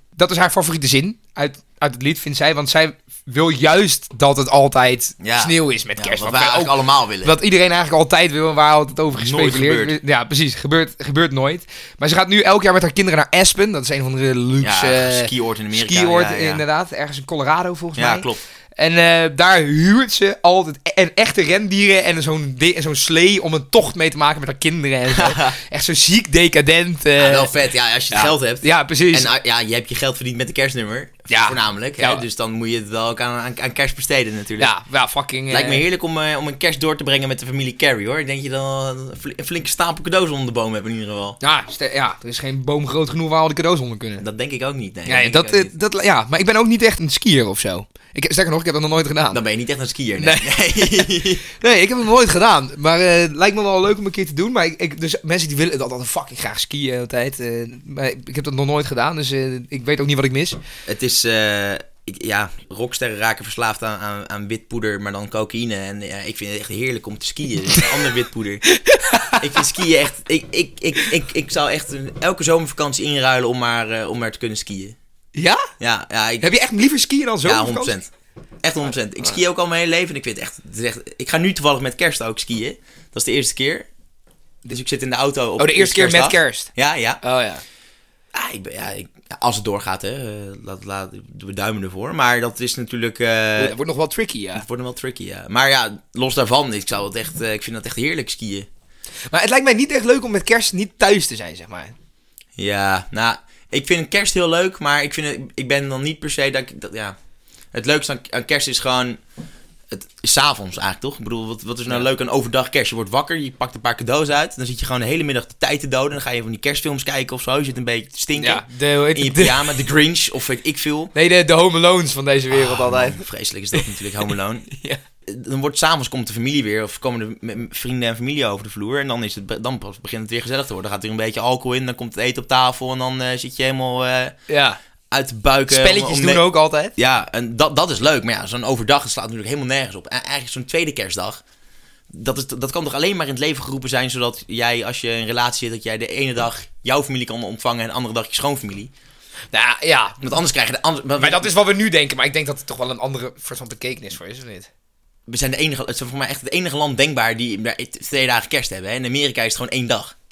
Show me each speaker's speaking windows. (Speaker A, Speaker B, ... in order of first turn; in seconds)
Speaker A: 0.1-27.5, 28.1-29.3, 31.3-32.2, 34.6-35.8, 41.4-44.2, 45.1-49.4, 50.2-60.6, 68.7-69.6, 75.4-75.6, 76.4-78.0, 85.6-86.7, 87.2-87.6, 93.6-94.7, 99.3-101.9, 118.4-119.8, 121.2-123.2, 124.7-125.0, 134.5-134.8, 135.7-136.9, 149.5-150.2, 151.2-154.7
Speaker B: 5.2-7.4, 9.1-10.0, 14.6-16.6, 17.9-18.4, 25.1-25.6, 27.2-34.7, 35.5-41.4, 44.2-45.7, 49.3-51.4, 60.9-68.7, 69.3-75.0, 75.8-76.5, 77.5-78.1, 78.6-83.9, 84.7-87.2, 88.3-93.8, 94.5-98.7, 102.6-107.2, 107.7-109.2, 109.9-121.1, 122.5-124.7, 125.3-134.4, 135.1-141.4, 142.1-148.9, 150.2-151.5, 155.3-160.1